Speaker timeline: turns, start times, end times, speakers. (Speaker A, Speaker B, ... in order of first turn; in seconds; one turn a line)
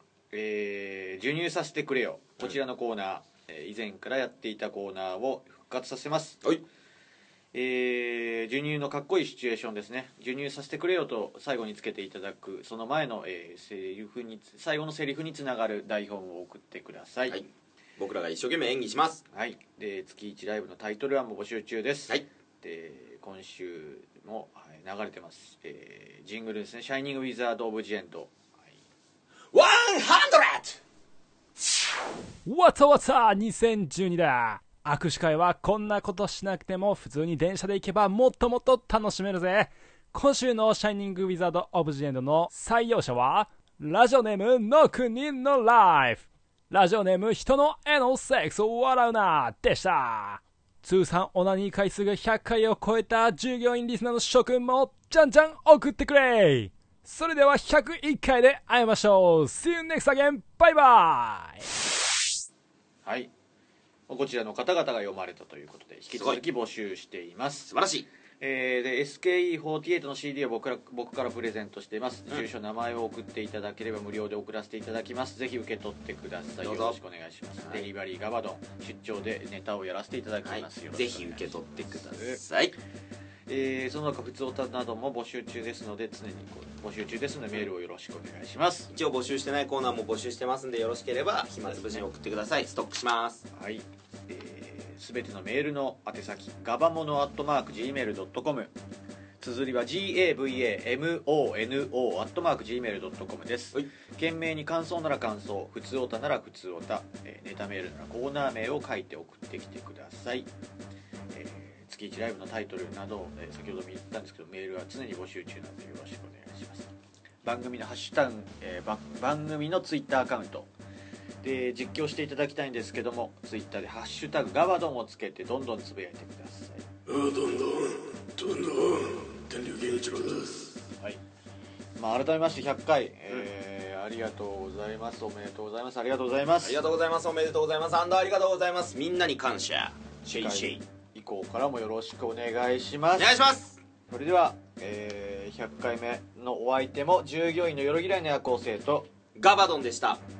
Speaker A: 0.3-6.4
Speaker A: 7.5-17.4
Speaker B: 17.3-19.2
Speaker A: 19.3-28.8
Speaker B: 29.5-30.8
Speaker C: 32.5-61.7
Speaker A: 63.0-63.3
Speaker A: 64.1-67.7
Speaker B: 66.1-66.4
Speaker B: 67.7-68.0
Speaker A: 68.4-82.4
Speaker B: 76.6-77.0
Speaker B: 77.6-77.9
Speaker B: 80.4-82.8
Speaker A: 83.5-88.9
Speaker B: 88.9-93.4
Speaker A: 93.5-98.7
Speaker A: 99.4-110.5
Speaker A: 111.3-116.9
Speaker A: 117.4-120.7
Speaker A: 121.4-126.9
Speaker B: 127.1-130.8
Speaker A: 132.0-136.8
Speaker B: 136.6-140.8
Speaker A: 140.3-143.4
Speaker B: 143.2-143.8
Speaker A: 144.1-149.1
Speaker B: 149.3-150.2